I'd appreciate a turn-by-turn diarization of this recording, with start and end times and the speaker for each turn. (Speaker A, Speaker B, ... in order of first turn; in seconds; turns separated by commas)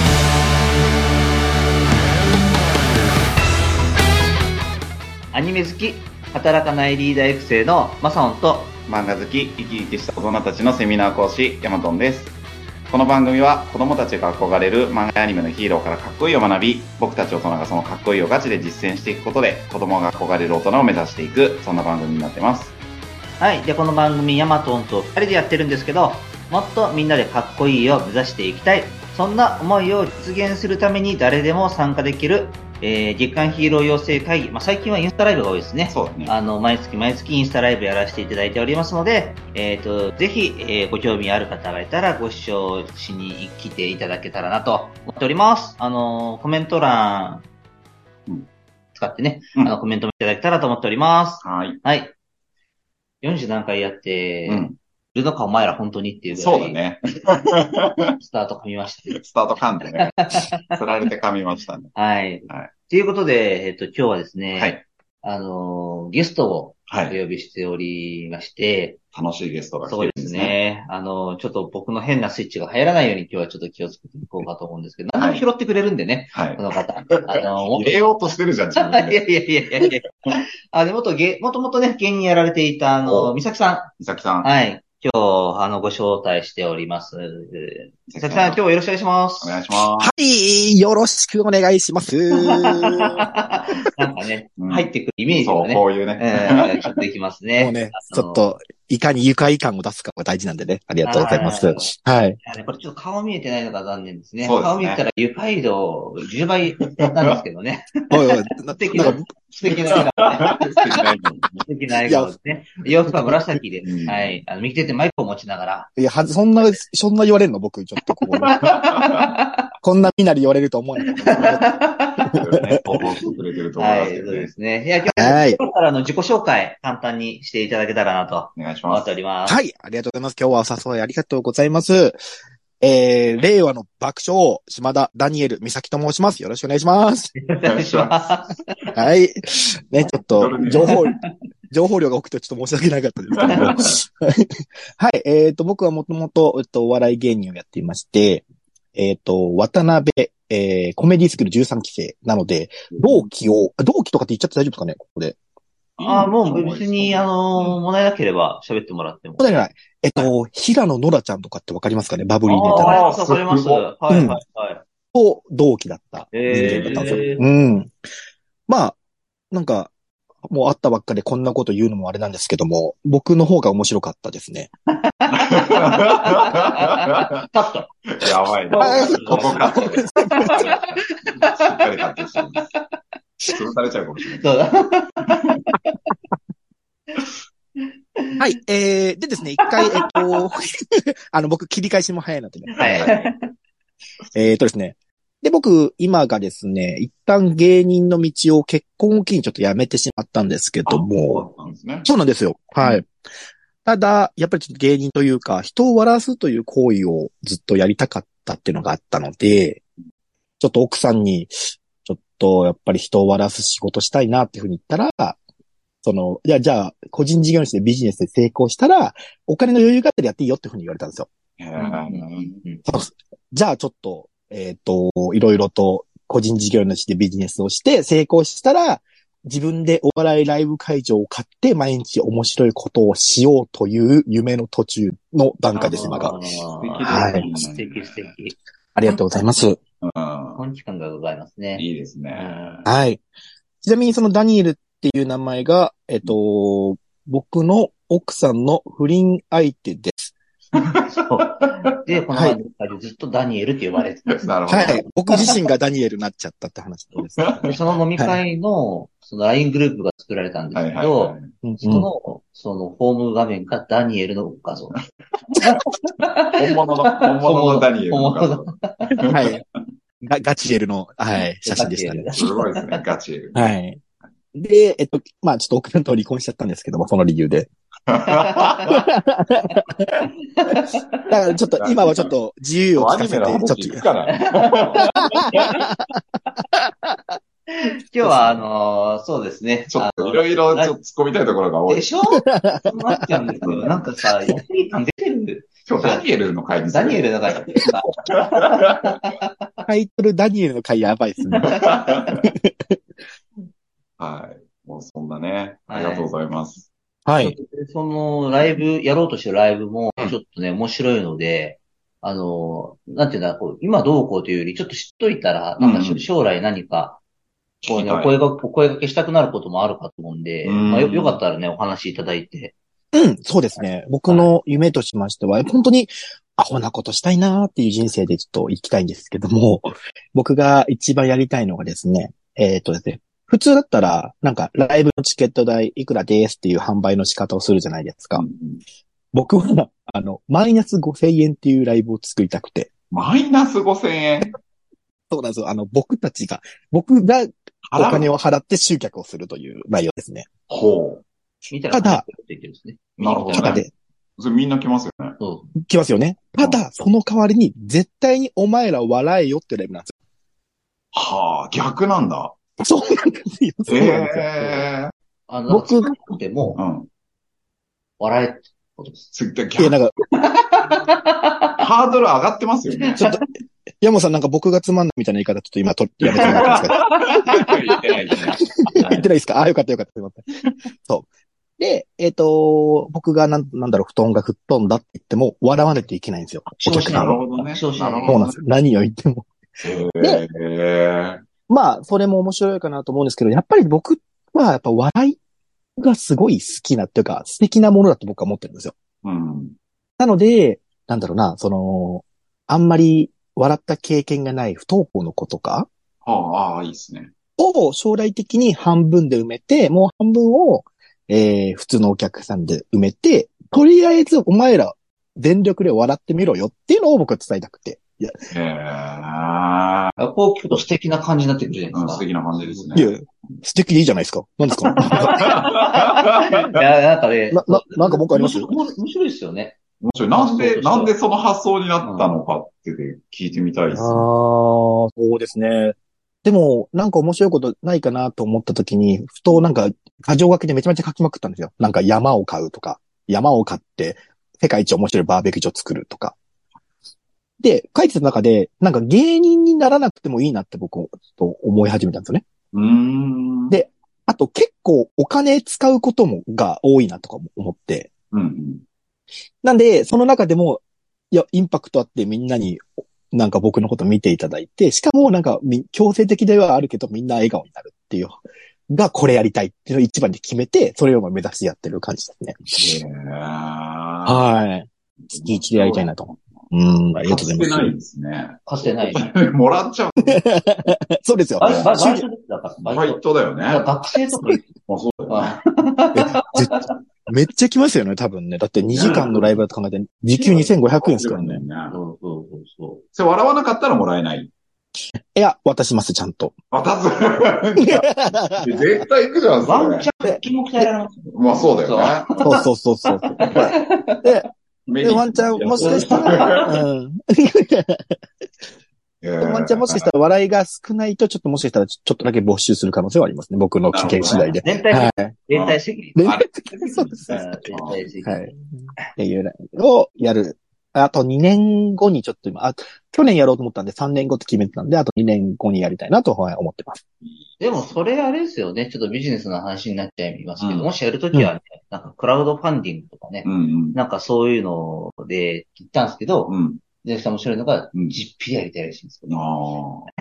Speaker A: 5.3-8.7, Speaker B: 8.9-12.3, Speaker B: 12.9-22.8, Speaker A: 23.4-47.5, Speaker B: 35.9-36.3, Speaker A: 48.9-52.1, Speaker B: 51.4-51.8, Speaker A: 53.2-56.8, Speaker B: 54.5-54.8, Speaker B: 56.3-58.1, Speaker A: 58.2-59.2, Speaker B: 59.1-62.0, Speaker A: 60.0-60.6, Speaker A: 61.9-69.0, Speaker B: 64.5-64.8, Speaker B: 66.9-67.2, Speaker B: 69.1-70.5, Speaker A: 69.8-78.0, Speaker B: 75.2-75.5, Speaker B: 76.3-79.9, Speaker A: 78.8-89.5, Speaker B: 83.0-83.3, Speaker B: 84.0-84.5, Speaker B: 88.1-88.6, Speaker B: 89.4-90.1, Speaker C: 90.0-93.2, Speaker A: 92.3-98.5, Speaker B: 94.6-96.9, Speaker C: 97.6-102.4, Speaker A: 101.0-101.9, Speaker A: 102.4-111.0, Speaker B: 104.4-105.0, Speaker B: 106.7-107.4, Speaker C: 108.1-109.3, Speaker B: 109.0-111.6, Speaker A: 111.6-115.9, Speaker C: 112.1-112.3, Speaker B: 113.8-114.4, Speaker C: 116.0-118.6, Speaker A: 118.4-119.7, Speaker B: 118.5-119.3, Speaker C: 119.8-121.8, Speaker A: 121.0-129.6, Speaker C: 122.3-123.0, Speaker B: 122.3-124.5, Speaker C: 125.2-125.6, Speaker B: 128.6-129.0, Speaker C: 129.5-132.2, Speaker C: 132.8-137.3, Speaker A: 137.4-138.9, Speaker B: 137.6-138.4, Speaker C: 138.9-141.2, Speaker B: 140.3-141.0, Speaker A: 140.7-141.3, Speaker C: 141.7-155.4, Speaker B: 143.3-143.9, Speaker A: 143.5-143.9, Speaker B: 152.9-153.3, Speaker B: 156.0-157.8, Speaker A: 156.0-159.7, Speaker C: 159.4-163.0, Speaker A: 162.5-164.8, Speaker B: 162.7-163.8, Speaker C: 164.1-164.4, Speaker C: 165.1-167.9, Speaker A: 166.3-167.4, Speaker B: 166.6-167.2, Speaker C: 168.7-169.0, Speaker C: 169.5-169.9, Speaker C: 170.4-174.7, Speaker A: 174.9-181.9, Speaker B: 175.3-177.3, Speaker B: 178.1-182.7, Speaker C: 178.8-180.6, Speaker B: 183.5-184.5, Speaker A: 184.4-186.0, Speaker C: 188.4-193.1, Speaker A: 189.6-190.3, Speaker A: 192.8-193.5, Speaker B: 192.8-193.3, Speaker C: 194.3-201.5, Speaker B: 200.8-202.1, Speaker C: 202.0-203.1, Speaker C: 203.8-209.8, Speaker C: 210.6-211.5, Speaker C: 212.0-215.4, Speaker C: 216.0-221.3, Speaker B: 221.6-222.6, Speaker A: 221.8-222.8, Speaker C: 222.9-236.3, Speaker A: 235.7-238.5, Speaker B: 236.0-238.3, Speaker C: 237.1-237.4, Speaker C: 238.9-239.8, Speaker B: 240.0-240.6, Speaker A: 240.6-242.8, Speaker B: 241.8-242.8, Speaker C: 242.8-243.2, Speaker C: 243.8-250.3, Speaker A: 250.8-255.4, Speaker B: 250.8-251.1, Speaker C: 252.3-252.6, Speaker B: 254.3-255.5, Speaker C: 254.7-257.5, Speaker B: 257.4-257.7, Speaker A: 257.6-265.0, Speaker B: 260.7-261.5, Speaker C: 261.6-262.1, Speaker A: 265.6-269.2, Speaker B: 266.5-269.6, Speaker C: 269.3-269.6, Speaker C: 270.2-272.3, Speaker A: 271.6-273.0, Speaker B: 272.3-273.7, Speaker C: 273.5-274.0, Speaker C: 274.5-277.7, Speaker B: 278.1-279.0, Speaker A: 278.2-278.8, Speaker C: 278.9-280.8, Speaker A: 280.5-281.3, Speaker C: 281.3-284.0, Speaker B: 281.8-282.3, Speaker B: 282.9-285.6, Speaker A: 284.5-285.9, Speaker C: 285.4-285.8, Speaker A: 287.7-290.9, Speaker B: 288.2-288.6, Speaker B: 289.9-292.1, Speaker A: 291.9-296.2, Speaker C: 292.4-293.2, Speaker B: 293.6-293.9, Speaker B: 295.9-299.2, Speaker A: 296.9-299.5, Speaker C: 299.9-301.7, Speaker A: 301.5-302.3, Speaker B: 301.6-302.4, Speaker C: 302.4-302.9, Speaker B: 304.2-306.9, Speaker A: 305.9-306.3, Speaker C: 307.2-307.5, Speaker A: 307.4-317.2, Speaker B: 315.8-316.2, Speaker B: 317.8-318.4, Speaker A: 317.9-322.7, Speaker B: 320.6-321.4, Speaker C: 323.1-338.4, Speaker B: 338.3-338.8, Speaker C: 339.3-342.9, Speaker B: 343.1-344.6, Speaker C: 345.3-350.5, Speaker B: 347.9-348.3, Speaker B: 350.7-351.2, Speaker A: 351.7-353.8, Speaker C: 351.9-352.2, Speaker B: 353.2-353.8, Speaker C: 353.5-353.9, Speaker B: 354.4-355.4, Speaker A: 355.4-355.7, Speaker C: 355.8-360.1, Speaker B: 361.1-362.5, Speaker C: 362.8-364.8, Speaker B: 363.9-365.1, Speaker A: 365.5-366.8, Speaker C: 365.7-366.1, Speaker B: 366.8-367.1, Speaker A: 368.2-369.3, Speaker B: 369.3-370.0, Speaker C: 369.8-370.1, Speaker A: 370.3-371.8, Speaker B: 371.8-373.2, Speaker A: 373.0-373.4, Speaker C: 374.0-377.0, Speaker B: 376.2-378.7, Speaker A: 376.3-378.0, Speaker A: 378.9-379.2, Speaker C: 378.9-380.4, Speaker C: 381.8-387.4, Speaker A: 386.7-388.4, Speaker B: 387.1-388.6, Speaker C: 388.3-389.5, Speaker B: 389.8-391.4, Speaker C: 391.7-395.4, Speaker C: 396.0-398.9, Speaker B: 399.2-399.8, Speaker C: 400.2-405.9, Speaker B: 406.2-407.3, Speaker C: 407.6-418.4, Speaker B: 418.5-420.2, Speaker A: 420.2-422.8, Speaker B: 421.9-423.6, Speaker C: 422.9-425.5, Speaker A: 424.9-429.8, Speaker B: 425.1-426.8, Speaker C: 427.5-428.7, Speaker B: 430.0-434.2, Speaker A: 430.3-431.1, Speaker A: 432.0-432.3, Speaker C: 433.9-446.4, Speaker C: 447.6-452.4, Speaker B: 452.7-453.8, Speaker C: 453.7-458.1, Speaker B: 458.3-458.8, Speaker C: 459.6-472.9, Speaker B: 472.7-474.4, Speaker C: 474.2-477.9, Speaker B: 475.2-476.4, Speaker B: 477.1-480.5, Speaker A: 478.6-479.3, Speaker C: 480.3-482.2, Speaker A: 481.6-484.6, Speaker B: 481.6-482.0, Speaker B: 482.8-483.9, Speaker B: 484.8-485.6, Speaker A: 485.3-486.9, Speaker C: 486.1-491.6, Speaker B: 488.9-489.6, Speaker A: 489.0-489.3, Speaker B: 490.4-492.0, Speaker A: 491.9-493.0, Speaker B: 493.1-494.5, Speaker C: 495.3-496.5, Speaker B: 496.7-498.0, Speaker C: 497.8-498.9, Speaker B: 498.6-500.1, Speaker A: 499.6-501.2, Speaker C: 500.3-500.8, Speaker B: 501.2-502.4, Speaker A: 501.8-504.3, Speaker C: 502.4-504.5, Speaker B: 503.4-503.7, Speaker B: 504.9-506.7, Speaker C: 505.0-508.2, Speaker A: 505.8-506.8, Speaker B: 509.2-510.1, Speaker C: 509.4-515.3, Speaker B: 513.9-514.6, Speaker A: 514.6-516.2, Speaker B: 515.5-518.0, Speaker C: 516.1-517.6, Speaker A: 517.3-518.5, Speaker C: 518.2-527.0, Speaker B: 527.2-528.0, Speaker A: 527.6-539.4, Speaker B: 530.6-530.9, Speaker B: 533.4-534.0, Speaker B: 536.5-536.8, Speaker B: 539.3-540.1